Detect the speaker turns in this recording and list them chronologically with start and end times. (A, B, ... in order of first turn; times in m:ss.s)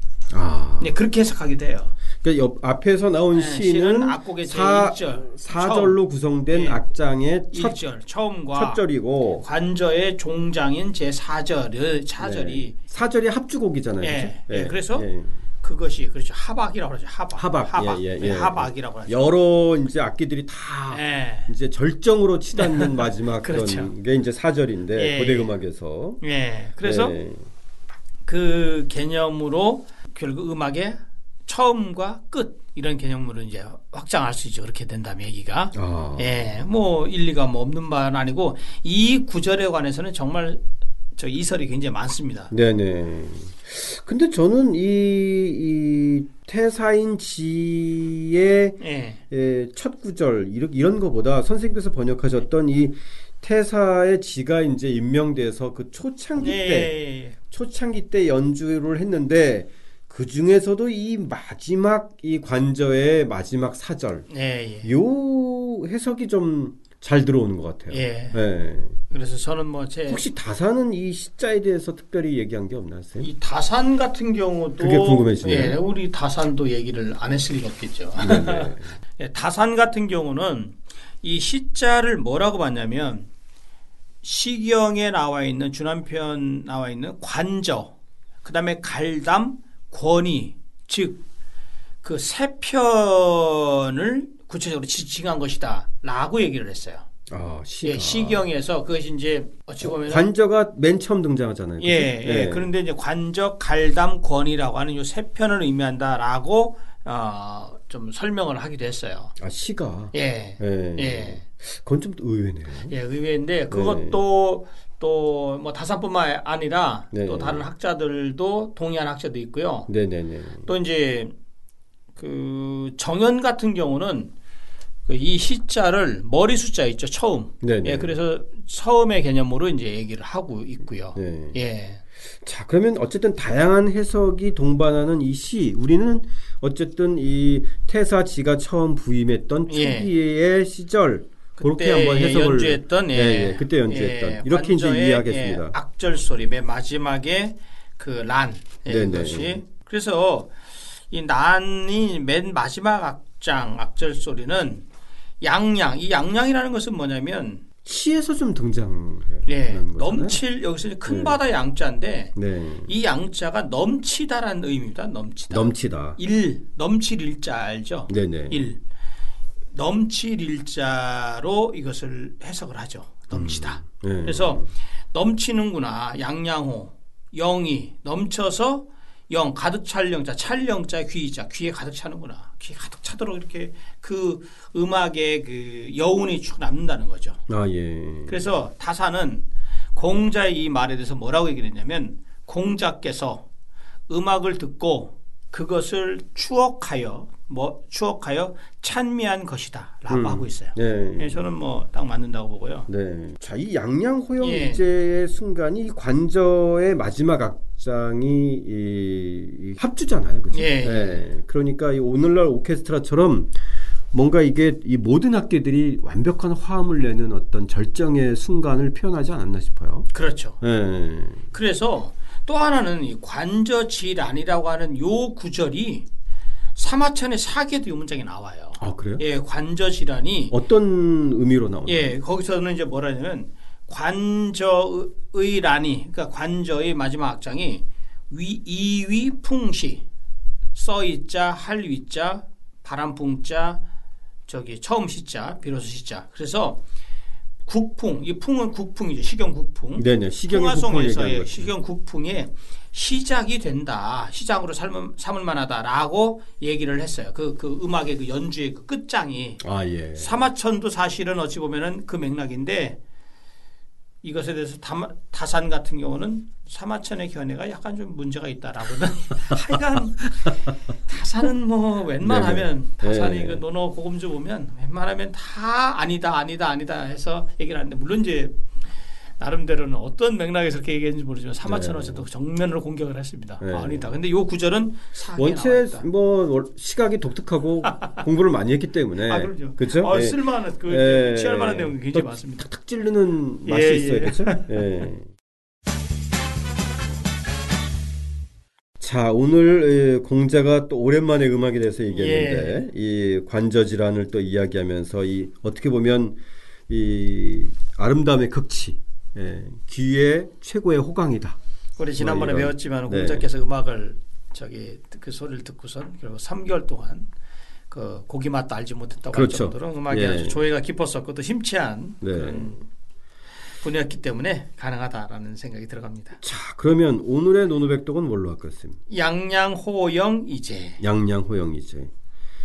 0:00.3-0:00.9 A
0:00.8-0:02.0 B
0:02.2-0:07.8 A
0:03.3-0:06.0 B
0:06.5-0:06.8 B
0:07.5-0:08.8 B
0:08.5-0:09.4 A
0:09.4-0:12.7 B
0:12.2-0:15.4 A
0:14.0-0:15.1 B
0:15.6-0:19.2 B
0:17.4-0:26.2 A
0:20.9-0:21.5 B
0:22.6-0:23.9 B
0:24.9-0:25.6 B
0:26.2-0:27.2 B
0:26.8-0:27.4 A
0:28.2-0:40.6 B
0:35.7-0:36.3 A
0:41.2-0:42.5 B
0:42.5-0:48.8 A
0:48.8-0:49.2 B
0:49.3-0:56.9 A
0:56.4-0:57.4 B
0:57.5-1:04.3 A
1:04.3-1:04.9 B
1:04.8-1:09.0 A
1:07.9-1:08.4 B
1:09.1-1:10.2 B
1:10.1-1:13.3 A
1:13.2-1:23.3 B
1:14.8-1:15.8 A
1:18.2-1:18.9 A
1:24.2-1:31.2 B
1:32.0-1:37.0 B
1:37.3-1:38.4 A
1:37.8-1:40.3 B
1:39.8-1:42.7 A
1:41.8-1:49.3 B
1:49.4-1:52.9 A
1:50.1-1:51.4 B
1:52.8-1:59.9 B
1:53.7-1:54.2 A
1:57.1-1:57.7 A
1:59.9-2:00.7 A
2:00.6-2:01.3 B
2:02.2-2:04.3 B
2:05.1-2:12.0 B
2:07.6-2:08.1 A
2:11.2-2:11.6 A
2:12.4-2:25.8 A
2:19.7-2:20.1 B
2:21.6-2:34.8 B
2:28.9-2:29.6 A
2:35.4-2:37.6 B
2:37.8-2:40.4 A
2:39.4-2:42.3 B
2:41.0-2:41.4 A
2:42.4-2:42.9 A
2:42.8-2:48.8 B
2:45.5-2:46.2 A
2:48.1-2:48.7 A
2:49.7-3:07.4 B
2:53.3-2:54.6 A
3:07.5-3:08.4 A
3:08.3-3:13.4 B
3:14.1-3:22.9 B
3:20.1-3:21.4 A
3:22.9-3:33.5 A
3:24.4-3:24.8 B
3:30.5-3:31.2 B
3:34.1-3:40.1 A
3:40.1-3:40.6 B
3:40.6-3:41.5 A
3:41.5-3:46.1 B
3:46.7-3:50.6 B
3:48.8-3:49.2 A
3:50.5-3:52.1 A
3:51.9-4:00.0 B
4:00.7-4:03.8 B
4:04.5-4:06.8 B
4:07.6-4:19.6 B
4:10.0-4:11.7 A
4:19.6-4:20.4 A
4:20.2-4:23.0 B
4:24.2-4:38.6 B
4:32.2-4:33.6 A
4:39.4-4:46.1 B
4:41.6-4:42.3 A
4:43.6-4:44.1 A
4:45.4-4:55.3 A
4:49.2-4:52.7 B
4:53.6-4:55.0 B
4:59.0-5:11.6 A
5:02.1-5:02.9 B
5:12.0-5:17.3 B
5:12.2-5:13.5 A
5:17.9-5:22.8 B
5:19.3-5:20.6 A
5:22.2-5:22.8 A
5:23.8-5:26.4 B
5:26.4-5:29.0 A
5:29.1-5:31.0 B
5:31.0-5:32.1 A